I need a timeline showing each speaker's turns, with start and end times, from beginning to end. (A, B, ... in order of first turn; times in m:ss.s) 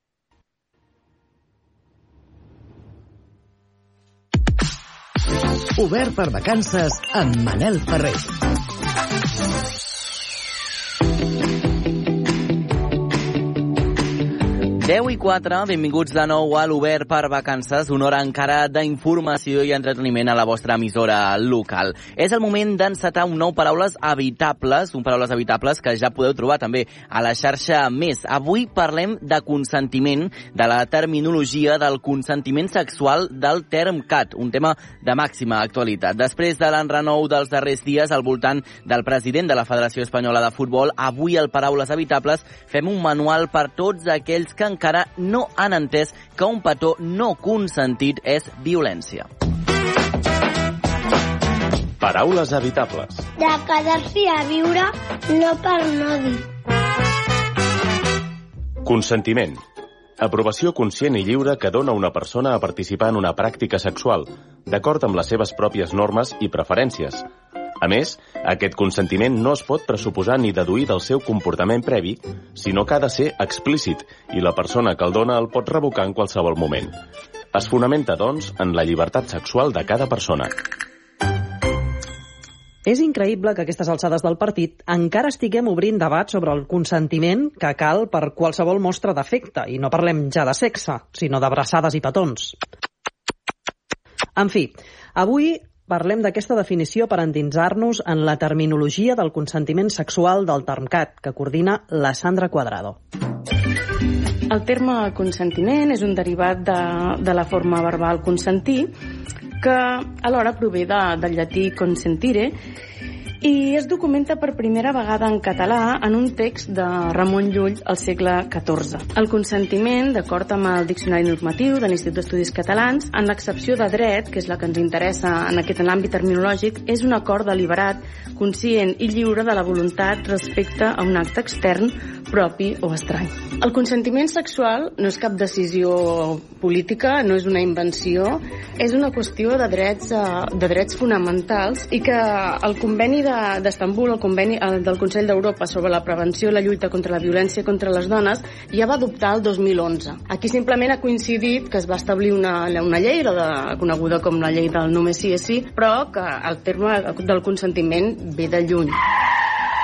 0:05.8-0:08.3 A
0:14.8-0:49.3 B
0:52.0-0:53.3 C
0:53.4-0:56.4 D
0:58.8-0:59.6 C
1:00.2-1:07.2 C
1:07.8-1:16.9 C
1:17.5-1:20.5 C
1:22.8-1:32.6 E
1:34.4-1:43.0 E
1:44.5-1:48.9 F
1:49.6-1:52.6 F
1:53.4-2:39.0 F